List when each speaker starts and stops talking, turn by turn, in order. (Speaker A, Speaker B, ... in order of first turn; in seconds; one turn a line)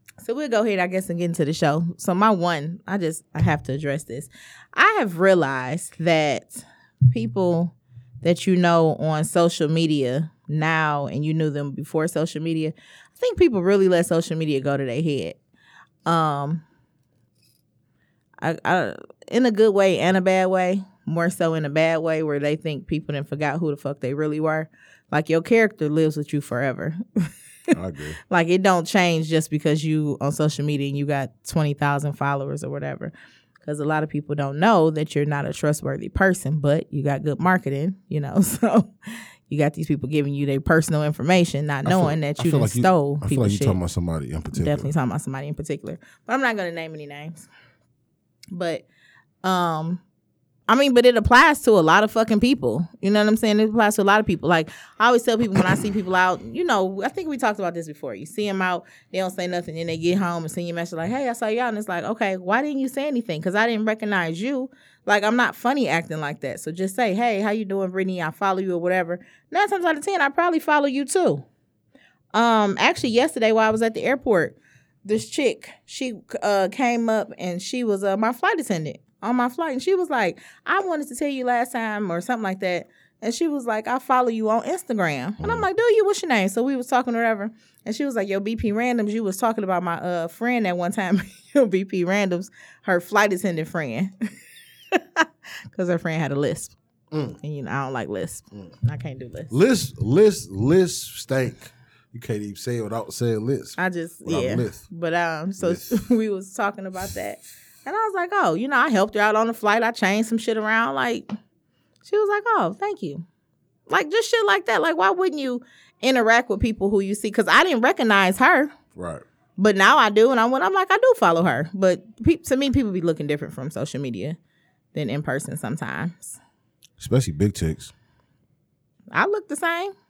Speaker A: 0.2-15.4
Speaker A: 16.1-16.6
Speaker A: 18.4-27.3
Speaker B: 27.7-28.2
Speaker A: 28.3-33.1
Speaker A: 33.6-38.9
Speaker A: 39.5-43.8
Speaker B: 41.9-44.9
Speaker A: 44.5-47.5
Speaker A: 48.5-48.9
Speaker A: 49.4-50.0
Speaker A: 50.7-71.4
Speaker A: 72.3-94.1
Speaker B: 85.4-85.7
Speaker A: 94.9-96.7
Speaker B: 97.1-97.4
Speaker A: 97.4-99.5
Speaker B: 99.5-104.8
Speaker A: 103.8-111.3
Speaker B: 105.6-106.0
Speaker A: 112.1-113.2
Speaker A: 113.9-118.7
Speaker B: 118.9-119.2
Speaker A: 119.6-124.4
Speaker A: 124.9-126.4
Speaker B: 127.0-127.9
Speaker A: 129.1-129.9